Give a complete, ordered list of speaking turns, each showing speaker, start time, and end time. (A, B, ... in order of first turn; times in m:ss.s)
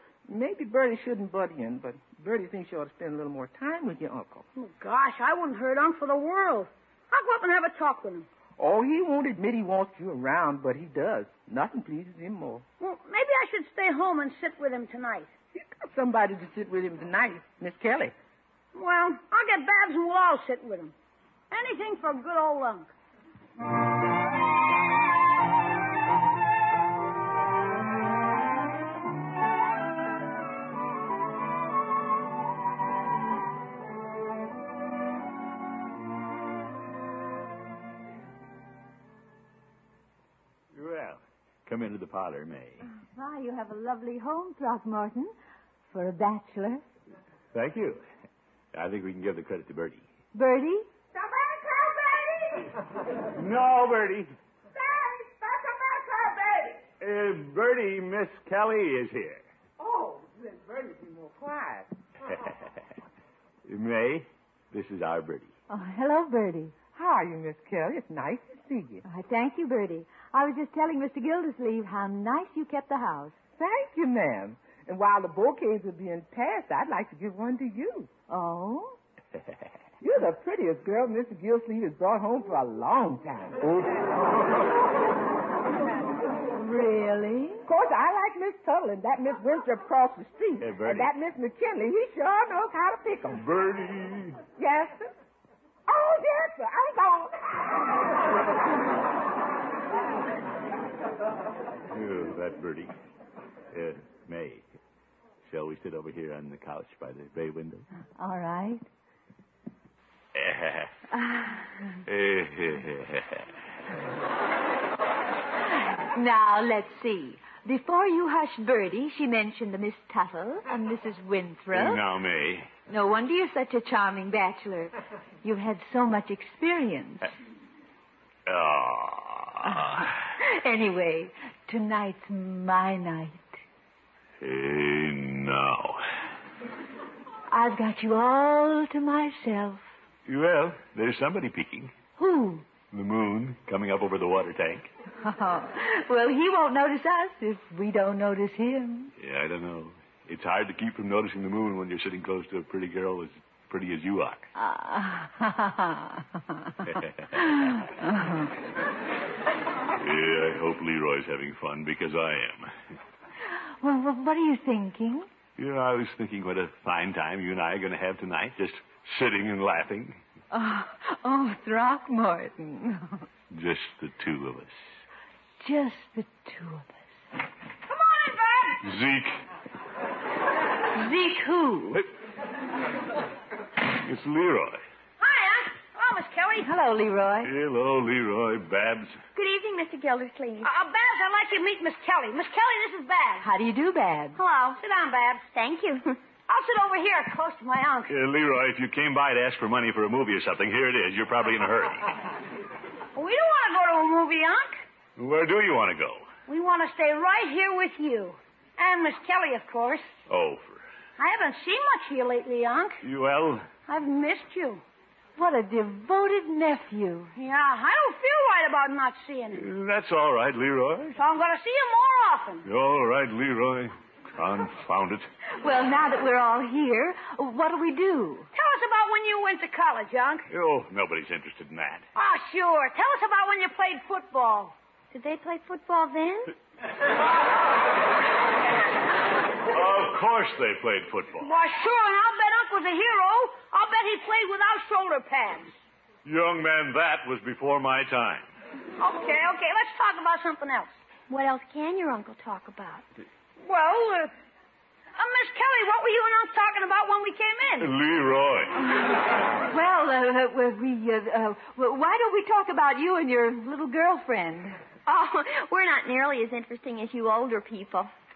0:00.2-0:04.4 A
0:04.6-0:08.3 B
0:08.6-0:12.6 A
0:12.8-0:15.3 B
0:15.5-0:18.1 A
0:18.7-0:20.9 B
0:21.5-0:22.9 B
0:40.7-0:42.9 C
0:43.1-0:45.3 D
0:45.9-0:46.8 D
0:47.5-0:48.0 C
0:48.7-0:50.1 C
0:50.3-0:50.9 D
0:51.1-0:52.7 A
0:53.3-0:54.4 C
0:54.7-0:56.8 A
0:57.0-0:59.5 C
0:59.8-1:02.4 A
1:03.6-1:05.5 C
1:05.7-1:06.7 D
1:06.9-1:09.0 A
1:09.0-1:13.4 D
1:13.6-1:18.1 A
1:18.3-1:19.0 D
1:20.0-1:23.8 A
1:26.6-1:27.6 D
1:27.7-1:33.4 A
1:30.6-1:31.1 C
1:33.3-1:34.4 C
1:34.6-1:35.1 A
1:35.9-1:38.0 A
1:41.9-1:42.9 C
1:43.7-1:44.6 C
1:45.4-1:47.8 C
1:48.2-1:48.9 D
1:50.3-1:51.0 C
1:51.1-1:51.7 D
1:52.0-1:53.5 C
1:56.0-2:02.0 D
2:01.7-2:02.7 C
2:02.9-2:07.3 D
2:08.4-2:10.1 C
2:09.6-2:13.6 D
2:14.4-2:16.0 C
2:17.5-2:19.9 D
2:20.2-2:22.0 C
2:22.2-2:22.7 D
2:22.9-2:24.9 C
2:25.2-2:29.1 D
2:29.2-2:34.5 C
2:34.5-2:38.5 D
2:36.8-2:37.6 C
2:39.9-2:42.7 C
2:43.8-2:45.3 D
2:45.6-2:50.2 C
2:50.5-2:53.2 D
2:53.5-2:54.8 C
2:55.6-2:57.1 D
2:57.9-2:58.8 B
2:58.8-2:59.4 C
3:00.9-3:02.1 D
3:03.9-3:04.8 C
3:05.2-3:06.7 B
3:06.6-3:07.5 D
3:07.4-3:09.2 C
3:09.3-3:10.7 E
3:10.6-3:13.5 B
3:13.4-3:14.4 D
3:14.4-3:14.8 E
3:14.8-3:15.4 B
3:15.5-3:16.2 E
3:16.5-3:18.1 B
3:18.1-3:22.2 C
3:23.1-3:24.8 B
3:25.2-3:26.3 C
3:26.5-3:30.1 B
3:30.3-3:30.8 C
3:31.2-3:33.0 B
3:33.0-3:33.7 C
3:33.9-3:34.8 B
3:35.4-3:37.3 D
3:37.4-3:39.6 B
3:39.5-3:41.2 C
3:41.2-3:42.6 B
3:42.6-3:45.3 C
3:45.6-3:48.5 D
3:48.5-3:50.5 B
3:50.5-3:52.0 C
3:52.1-3:54.7 B
3:55.1-3:56.5 E
3:59.6-4:01.5 C
4:01.4-4:05.7 B
4:06.2-4:08.5 C
4:09.0-4:10.9 B
4:11.3-4:13.0 E
4:13.6-4:14.3 B
4:15.2-4:17.9 B
4:17.8-4:18.8 C
4:19.7-4:24.8 D
4:25.0-4:28.1 E